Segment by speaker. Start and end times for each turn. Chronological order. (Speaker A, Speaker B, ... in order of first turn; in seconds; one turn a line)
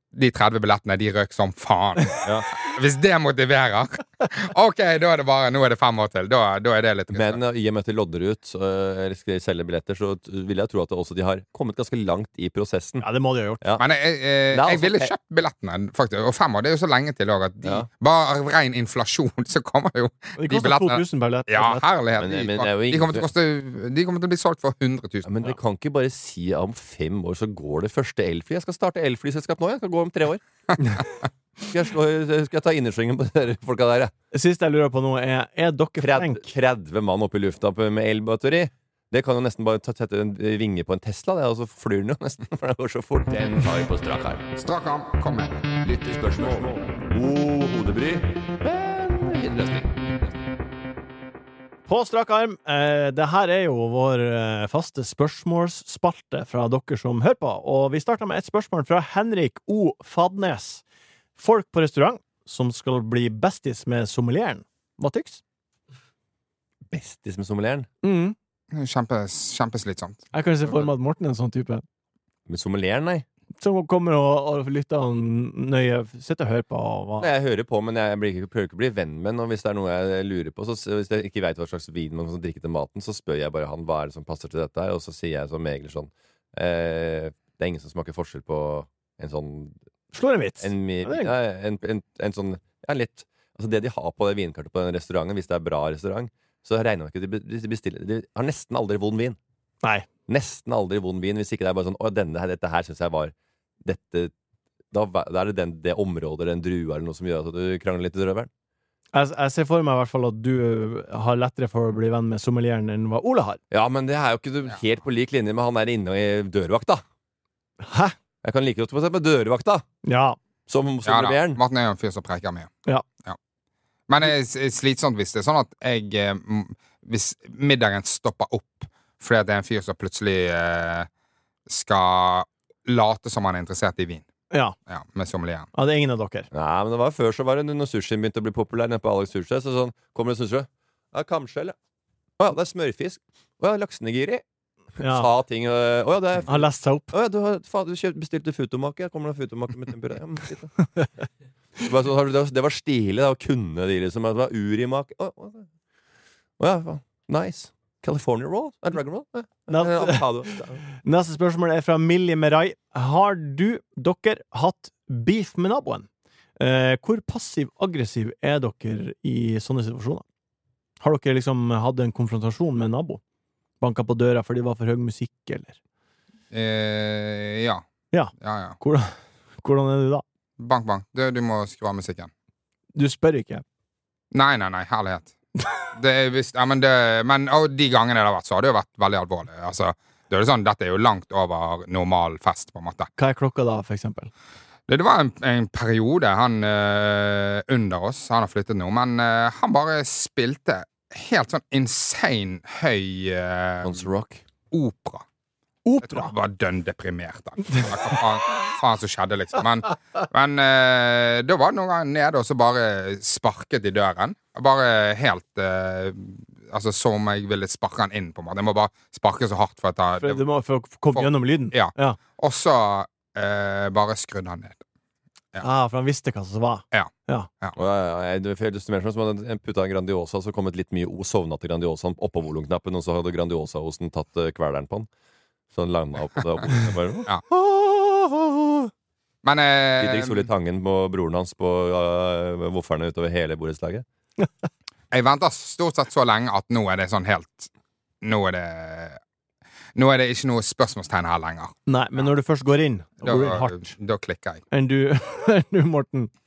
Speaker A: 0.1-7.4
Speaker B: 7.1-13.0
Speaker C: 13.0-13.6
Speaker A: 13.8-25.5
Speaker B: 14.5-15.1
Speaker C: 20.4-21.9
Speaker B: 22.2-23.3
Speaker B: 25.2-31.0
Speaker B: 31.6-34.1
Speaker C: 34.3-36.5
Speaker B: 36.0-44.5
Speaker A: 44.6-45.6
Speaker B: 45.8-50.4
Speaker C: 51.9-60.8
Speaker C: 61.4-65.4
Speaker B: 66.9-67.9
Speaker C: 68.0-68.4
Speaker A: 68.7-70.2
Speaker C: 70.3-71.8
Speaker B: 72.5-73.2
Speaker C: 73.6-77.3
Speaker B: 77.2-89.8
Speaker C: 90.1-91.3
Speaker B: 90.6-99.4
Speaker B: 100.3-103.3
Speaker B: 103.8-104.3
Speaker B: 104.9-108.5
Speaker C: 109.1-113.6
Speaker B: 113.7-117.0
Speaker C: 117.8-118.2
Speaker B: 118.4-119.8
Speaker C: 120.0-120.4
Speaker B: 120.7-121.6
Speaker A: 121.0-122.7
Speaker A: 124.1-131.1
Speaker A: 131.7-134.3
Speaker C: 134.5-134.8
Speaker A: 134.9-135.7
Speaker C: 135.7-136.5
Speaker B: 136.5-141.7
Speaker B: 142.4-144.4
Speaker C: 145.0-145.3
Speaker B: 145.0-150.8
Speaker C: 146.5-147.1
Speaker B: 151.8-155.7
Speaker B: 156.6-160.8
Speaker C: 159.7-166.1
Speaker C: 166.6-170.2
Speaker C: 171.0-173.2
Speaker C: 173.8-175.8
Speaker A: 176.5-177.8
Speaker C: 178.1-180.2
Speaker A: 178.4-178.8
Speaker A: 180.6-182.3
Speaker C: 183.0-183.6
Speaker A: 184.3-185.3
Speaker A: 185.9-193.1
Speaker C: 193.2-194.3
Speaker A: 194.9-204.1
Speaker B: 203.8-204.4
Speaker A: 204.7-205.2
Speaker C: 205.8-206.3
Speaker A: 206.0-220.4
Speaker C: 220.2-222.2
Speaker A: 221.1-224.8
Speaker C: 225.6-227.5
Speaker A: 226.9-227.8
Speaker B: 227.8-235.1
Speaker B: 235.7-238.9
Speaker A: 239.4-240.5
Speaker B: 240.0-244.0
Speaker A: 245.1-247.7
Speaker A: 248.2-249.2
Speaker A: 249.9-252.3
Speaker C: 251.9-253.9
Speaker A: 253.2-254.6
Speaker C: 254.7-256.3